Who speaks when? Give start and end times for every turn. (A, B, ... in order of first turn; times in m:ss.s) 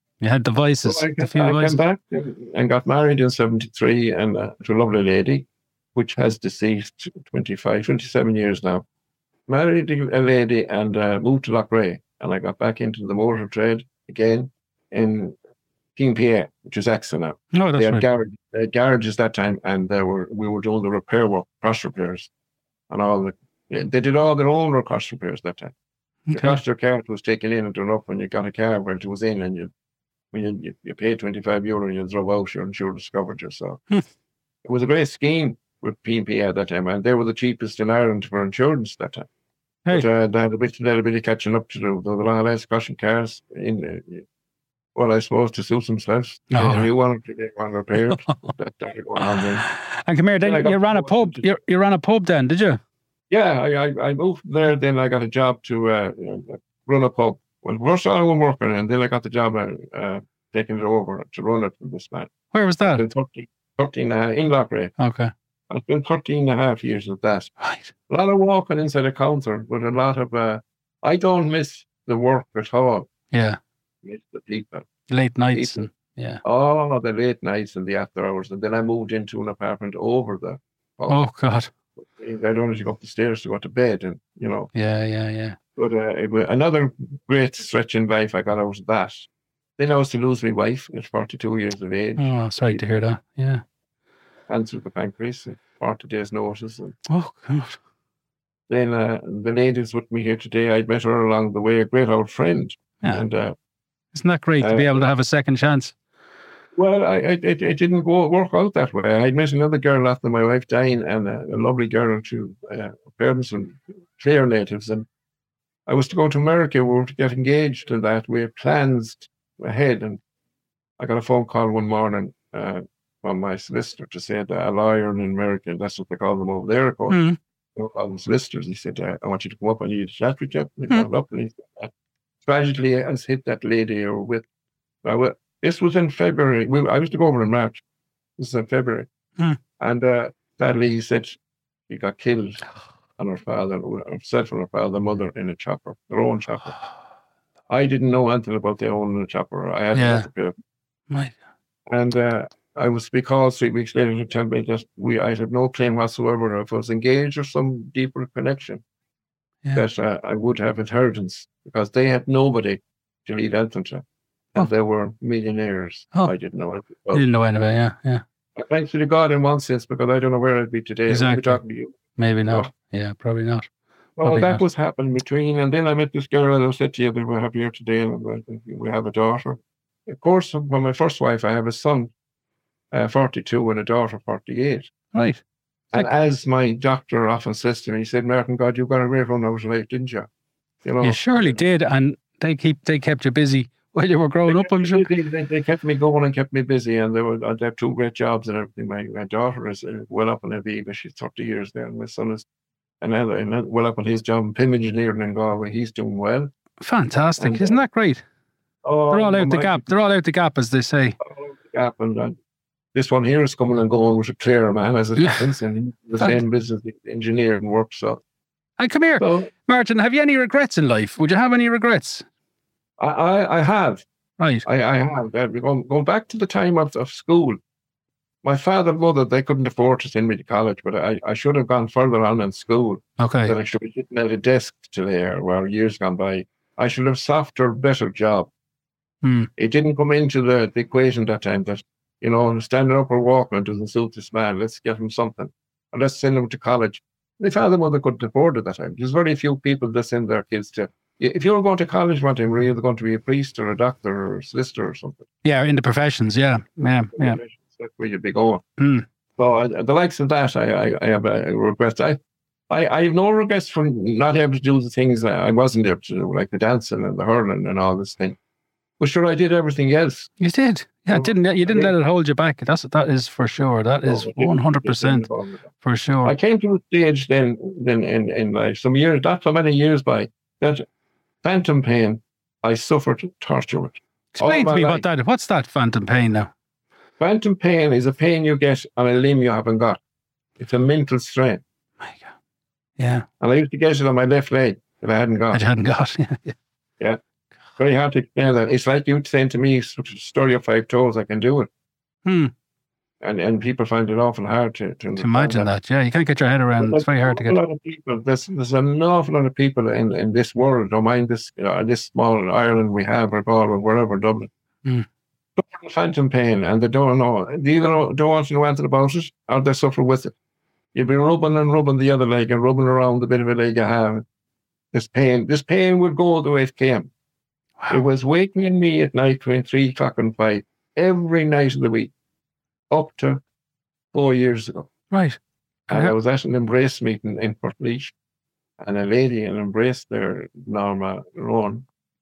0:00.2-0:01.8 A
0:00.8-0:08.8 B
0:09.5-0:15.3 B
0:16.0-0:22.3 B
0:17.5-0:18.0 A
0:22.9-0:25.7 B
0:26.3-0:26.6 A
0:26.3-0:29.7 B
0:30.3-0:33.8 B
0:34.6-0:39.3 B
0:39.9-0:44.2 B
0:44.9-0:49.6 B
0:46.5-0:46.9 A
0:49.2-0:52.8 A
0:50.4-0:51.4 B
0:53.3-1:02.3 B
1:02.5-1:03.0 A
1:02.9-1:04.9 B
1:05.0-1:05.3 A
1:05.7-1:07.5 B
1:07.6-1:07.9 A
1:08.1-1:13.1 B
1:13.3-1:13.6 A
1:14.0-1:14.9 B
1:15.1-1:16.4 A
1:15.5-1:15.9 B
1:16.4-1:21.2 B
1:21.1-1:21.7 A
1:22.0-1:24.7 B
1:24.7-1:25.6 A
1:25.8-1:32.8 B
1:32.2-1:33.6 A
1:34.5-1:37.0 B
1:37.1-1:37.8 A
1:38.7-1:43.5 B
1:44.1-1:45.9 A
1:44.6-1:45.0 B
1:46.8-1:55.0 B
1:55.8-2:00.2 B
2:01.0-2:07.2 B
2:07.1-2:07.4 A
2:07.8-2:11.9 B
2:12.4-2:14.4 B
2:15.0-2:17.8 B
2:18.4-2:19.1 B
2:19.8-2:21.4 B
2:21.9-2:26.8 B
2:27.7-2:30.5 B
2:29.9-2:30.3 A
2:31.1-2:31.4 A
2:31.9-2:38.8 B
2:39.7-2:47.2 B
2:47.1-2:48.2 A
2:48.6-2:52.0 B
2:51.1-2:51.6 A
2:52.2-2:53.7 A
2:54.2-3:02.1 B
2:54.2-2:54.6 A
3:02.9-3:04.9 B
3:05.1-3:05.4 A
3:05.9-3:10.3 B
3:10.8-3:11.6 B
3:11.0-3:15.1 A
3:14.5-3:22.4 B
3:23.0-3:26.5 B
3:26.8-3:28.2 A
3:27.4-3:27.8 B
3:28.8-3:29.8 B
3:29.1-3:31.2 A
3:31.2-3:32.3 B
3:32.9-3:38.2 B
3:38.8-3:42.2 A
3:39.2-3:39.5 B
3:43.0-3:44.0 B
3:44.4-3:44.6 A
3:44.6-3:47.6 B
3:48.4-3:58.5 B
3:53.2-3:53.5 A
3:59.2-3:59.5 A
3:59.6-4:15.2 B
4:15.4-4:17.4 A
4:17.1-4:18.6 B
4:18.8-4:19.0 A
4:19.4-4:22.2 B
4:22.7-4:28.4 B
4:29.0-4:30.3 B
4:30.4-4:35.3 A
4:31.1-4:31.9 B
4:34.0-4:35.7 B
4:35.8-4:36.3 A
4:36.2-4:40.8 B
4:41.4-4:45.0 B
4:44.4-4:46.5 A
4:47.2-4:50.0 B
4:50.6-4:51.6 B
4:52.0-4:52.3 A
4:53.0-4:53.2 A
4:53.4-4:55.6 B
4:55.5-4:56.5 A
4:57.8-5:01.7 B
5:02.2-5:02.5 A
5:03.2-5:05.7 B
5:05.2-5:07.6 A
5:06.8-5:14.5 B
5:15.6-5:20.3 B
5:20.9-5:24.2 B
5:24.9-5:27.1 B
5:27.9-5:32.1 B
5:32.9-5:33.4 B
5:34.1-5:34.9 B
5:35.1-5:35.4 A
5:35.9-5:38.1 B
5:38.8-5:41.8 B